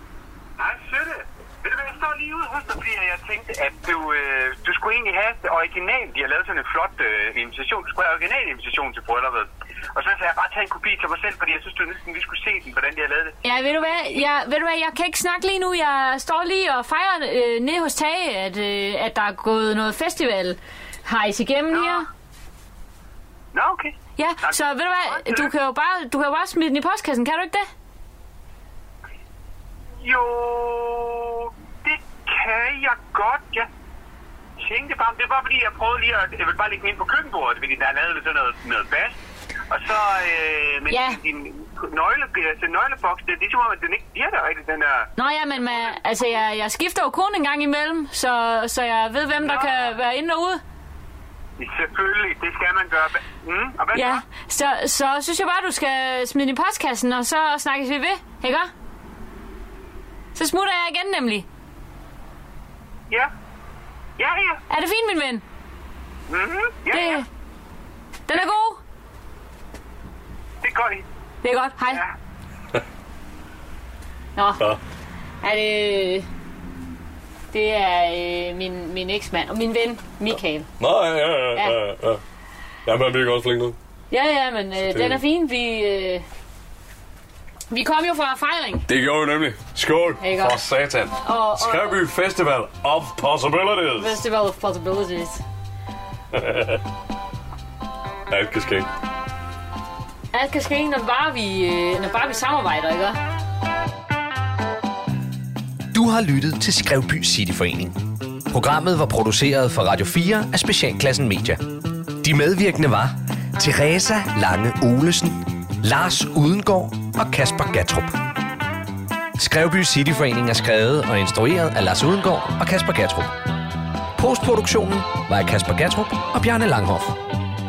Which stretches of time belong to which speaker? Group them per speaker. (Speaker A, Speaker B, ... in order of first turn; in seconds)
Speaker A: 0.6-13.4, 13.9-14.3, 21.7-22.1, 23.5-25.5, 30.0-33.7, 34.6-39.2, 39.7-45.1, 45.6-46.2, 49.4-49.9, 51.6-54.2, 64.2-64.6, 66.3-67.2, 70.6-71.0
Speaker B: 13.4-22.1, 24.2-27.7, 40.9-41.2, 45.1-50.6, 53.9-58.7, 60.3-61.5, 64.7-65.4, 66.9-67.2, 68.3-68.8, 71.4-72.0, 74.3-74.7, 75.4-76.3, 77.5-80.7, 81.5-81.8, 84.1-86.2, 87.7-88.9, 90.2-90.6, 91.2-92.0, 93.9-95.4, 100.3-103.2
Speaker C: 80.8-82.2, 82.8-83.8, 84.9-85.2, 88.9-94.2, 96.3-96.8, 98.3-98.9
Speaker D: 105.9-108.0, 108.5-111.6, 112.2-118.2, 119.4-123.3, 124.2-127.2